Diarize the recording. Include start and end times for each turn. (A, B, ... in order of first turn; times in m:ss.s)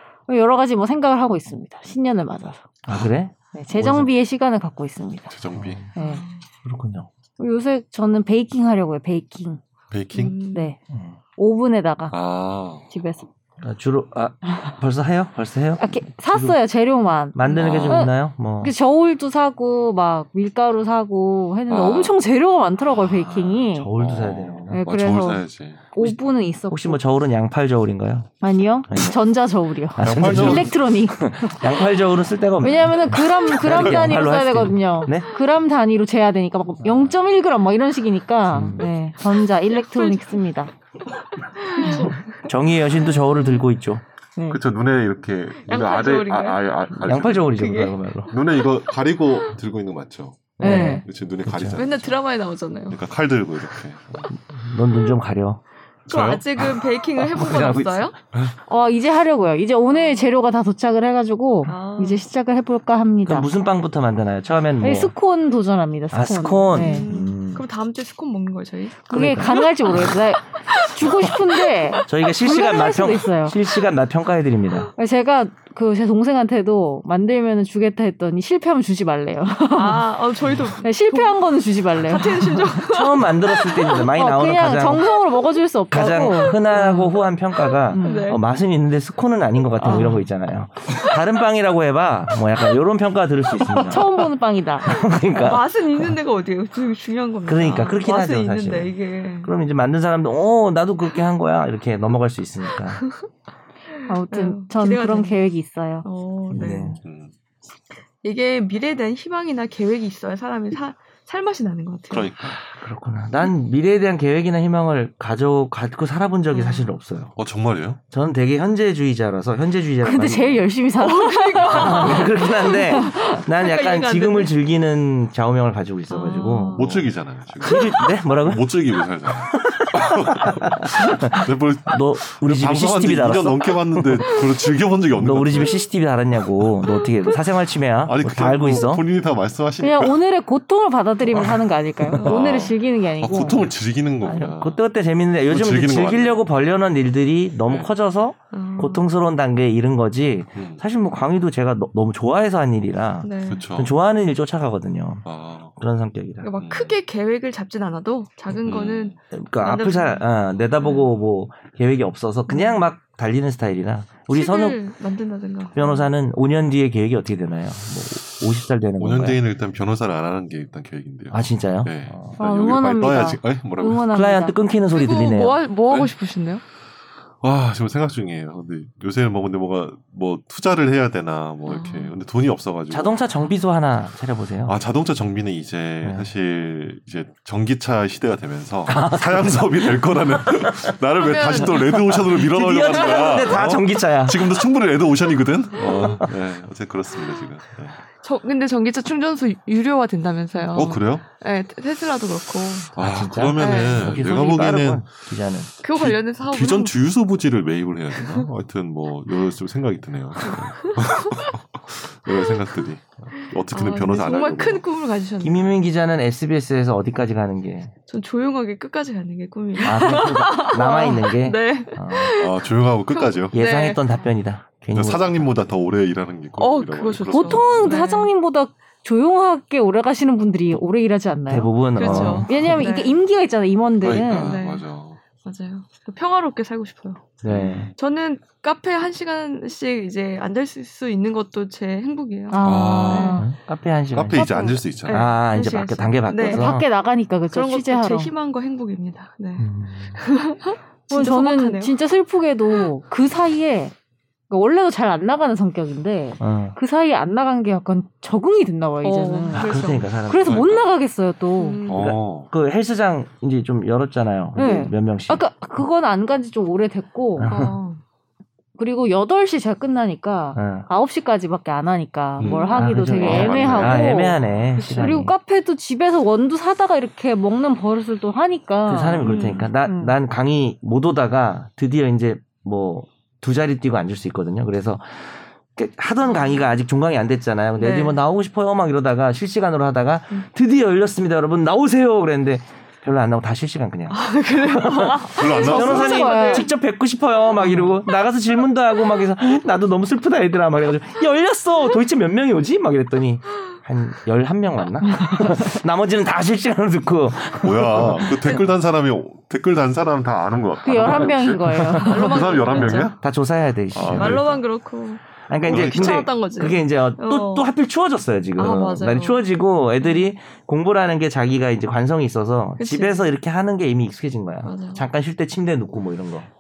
0:00.3-0:02.6 A
0:02.8-0:04.1 B
0:03.5-0:05.3 A
0:05.3-0:05.8 C
0:05.5-0:06.0 B
0:06.0-0:06.2 A
0:06.0-0:06.4 D
0:06.6-0:07.1 B
0:07.4-0:09.6 A
0:09.9-0:10.4 C
0:10.1-0:10.7 D
0:10.5-0:10.8 A
0:11.4-0:12.2 A
0:12.1-0:12.8 C
0:12.9-0:13.3 A
0:13.6-0:16.6 B
0:15.8-0:23.9 A
0:17.3-0:18.7 B
0:17.5-0:18.0 C
0:21.7-0:22.2 C
0:23.0-0:25.8 C
0:23.5-0:24.8 B
0:24.7-0:27.0 A
0:26.7-0:28.3 B
0:28.4-0:31.8 A
0:28.9-0:29.2 B
0:30.0-0:35.3 B
0:30.0-0:30.7 C
0:32.6-0:40.7 A
0:36.8-0:37.1 B
0:38.5-0:38.9 B
0:39.7-0:40.4 D
0:41.3-0:42.5 D
0:41.8-0:42.1 A
0:42.0-0:44.0 B
0:43.0-0:43.6 D
0:44.5-0:47.7 C
0:45.6-0:46.6 D
0:46.9-0:48.3 B
0:47.6-0:49.5 D
0:48.3-0:52.2 C
0:50.6-0:51.8 B
0:50.6-0:51.0 A
0:50.7-0:51.0 D
0:51.7-0:53.0 D
0:52.9-0:54.3 C
0:54.3-0:55.6 B
0:56.1-0:56.7 C
0:56.1-0:58.1 D
0:57.2-0:58.1 B
0:58.7-1:03.5 A
0:59.9-1:00.2 D
1:01.7-1:02.2 D
1:03.2-1:05.1 B
1:04.8-1:07.1 A
1:06.1-1:07.6 B
1:06.7-1:09.7 D
1:09.1-1:13.6 A
1:09.1-1:10.1 B
1:10.5-1:12.0 D
1:12.1-1:14.9 B
1:15.0-1:20.1 A
1:19.7-1:21.4 D
1:20.8-1:22.8 A
1:21.9-1:24.1 D
1:22.8-1:25.2 B
1:24.1-1:27.1 A
1:25.9-1:34.1 B
1:26.4-1:27.2 D
1:27.9-1:28.3 A
1:27.9-1:28.4 D
1:29.8-1:30.2 A
1:29.8-1:30.2 D
1:33.6-1:34.0 D
1:33.9-1:34.9 A
1:34.8-1:36.1 B
1:35.3-1:39.5 D
1:37.5-1:43.0 B
1:44.1-1:46.0 A
1:44.3-1:45.4 D
1:46.0-1:47.0 D
1:46.5-1:47.0 B
1:47.0-1:47.3 C
1:48.2-1:52.3 D
1:52.1-1:52.6 C
1:52.7-1:57.4 B
1:56.5-1:56.9 D
1:57.4-1:58.0 C
1:58.1-2:00.6 B
2:00.0-2:02.3 A
2:01.0-2:04.5 D
2:01.7-2:07.0 B
2:02.9-2:03.4 A
2:06.1-2:07.0 D
2:06.7-2:15.8 C
2:07.6-2:08.7 B
2:07.7-2:07.9 D
2:09.4-2:14.4 B
2:15.1-2:19.0 B
2:16.9-2:17.3 D
2:18.0-2:20.2 C
2:19.8-2:23.7 A
2:21.3-2:21.6 C
2:22.0-2:22.3 B
2:22.2-2:24.8 C
2:24.2-2:36.5 B
2:25.5-2:26.4 C
2:27.7-2:27.9 C
2:28.5-2:29.0 D
2:30.6-2:30.8 C
2:33.2-2:33.7 D
2:33.5-2:33.9 C
2:35.2-2:35.7 C
2:36.4-2:40.2 D
2:36.6-2:37.0 C
2:38.6-2:39.2 C
2:39.3-2:44.8 B
2:40.8-2:41.1 D
2:42.5-2:42.9 D
2:44.3-2:46.1 D
2:45.8-2:49.4 B
2:49.0-2:54.1 C
2:51.3-2:52.4 B
2:52.4-2:54.6 A
2:54.1-2:55.6 B
2:54.9-2:56.6 D
2:57.4-3:03.1 C
3:01.6-3:02.1 D
3:02.9-3:04.7 B
3:04.7-3:18.0 C
3:08.9-3:10.9 B
3:11.2-3:11.8 D
3:11.6-3:14.6 B
3:12.9-3:13.4 D
3:15.8-3:16.2 D
3:15.8-3:16.3 B
3:17.2-3:17.5 D
3:18.2-3:23.0 D
3:20.7-3:21.2 C
3:22.9-3:25.1 C
3:23.0-3:25.7 B
3:23.6-3:24.1 D
3:25.8-3:26.9 D
3:25.9-3:34.8 C
3:30.4-3:31.5 D
3:32.3-3:32.6 D
3:33.4-3:35.7 D
3:35.4-3:37.9 B
3:38.1-3:44.1 D
3:39.8-3:42.4 B
3:42.4-3:43.5 C
3:43.5-3:45.5 B
3:44.9-3:47.9 C
3:46.6-3:48.3 D
3:47.3-3:54.6 A
3:51.5-3:52.8 B
3:52.0-3:53.2 D
3:54.0-3:55.2 C
3:54.2-3:54.9 D
3:55.4-3:57.4 D
3:57.4-3:57.9 B
3:57.4-3:57.9 C
3:57.9-4:02.6 D
4:02.5-4:03.5 A
4:02.6-4:03.5 C
4:03.0-4:04.5 B
4:04.1-4:05.3 C
4:04.3-4:04.8 A
4:05.0-4:06.8 B
4:05.0-4:06.8 D
4:06.4-4:08.3 A
4:07.5-4:12.0 D
4:09.6-4:10.2 B
4:11.1-4:13.9 A
4:14.5-4:21.8 A
4:16.4-4:16.8 B
4:19.0-4:20.1 D
4:19.5-4:20.7 B
4:20.4-4:20.9 C
4:21.6-4:22.1 D
4:21.9-4:22.5 C
4:21.9-4:25.4 B
4:24.6-4:27.5 A
4:27.4-4:27.7 B
4:27.4-4:28.0 D
4:28.8-4:40.1 A
4:30.5-4:30.9 B
4:32.4-4:34.1 C
4:32.4-4:35.3 B
4:34.8-4:35.1 D
4:38.9-5:08.6 B
4:39.2-4:39.7 D
4:47.8-4:48.2 D
4:54.1-4:56.7 D
4:55.3-4:56.4 C
4:55.5-4:56.7 A
4:57.6-4:57.9 D
5:07.6-5:13.2 C
5:10.8-5:12.2 A
5:11.0-5:14.4 B
5:12.0-5:13.2 D
5:13.9-5:14.6 C
5:14.0-5:17.7 D
5:15.5-5:26.5 B
5:15.7-5:16.2 C
5:18.6-5:19.4 D
5:20.0-5:20.3 D
5:22.8-5:23.3 D
5:24.6-5:25.1 D